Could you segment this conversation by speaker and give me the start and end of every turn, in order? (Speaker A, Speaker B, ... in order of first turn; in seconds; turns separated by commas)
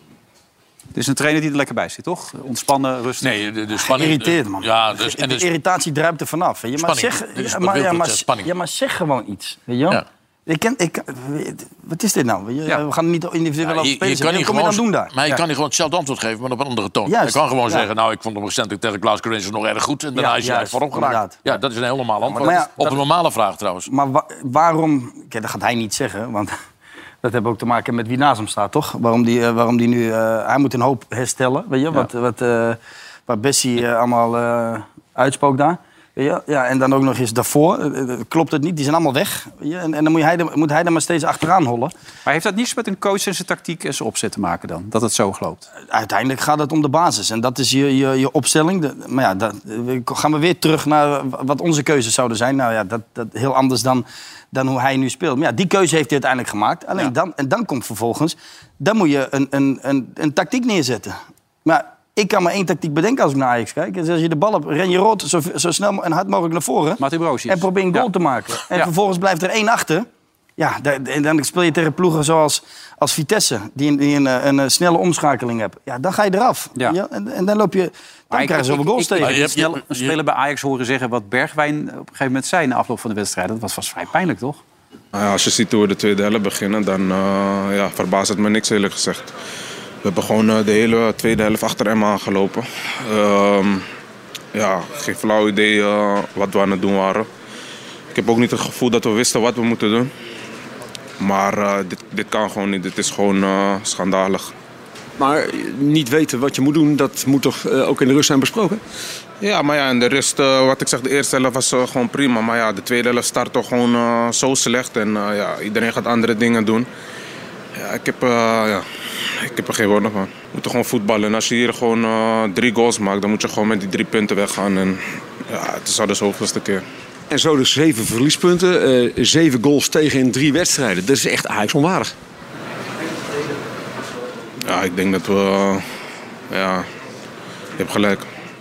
Speaker A: 0.9-3.3, Speaker B: 3.2-5.5, Speaker C: 3.8-15.1, Speaker B: 6.8-8.5, Speaker B: 13.6-23.9, Speaker C: 17.1-17.9, Speaker C: 20.1-21.4, Speaker C: 22.4-22.7, Speaker C: 23.9-26.5, Speaker C: 27.2-41.9, Speaker A: 42.2-45.7, Speaker C: 45.9-79.5, Speaker A: 67.0-68.0, Speaker A: 78.3-84.6, Speaker B: 79.2-80.2, Speaker D: 85.1-89.3, Speaker D: 90.0-93.8, Speaker D: 94.5-97.3, Speaker D: 98.1-100.1, Speaker D: 101.2-104.5, Speaker E: 105.2-108.8, Speaker D: 109.4-116.8, Speaker D: 117.7-126.8, Speaker E: 127.3-132.1, Speaker D: 134.6-135.8, Speaker D: 136.5-136.8, Speaker D: 137.8-138.3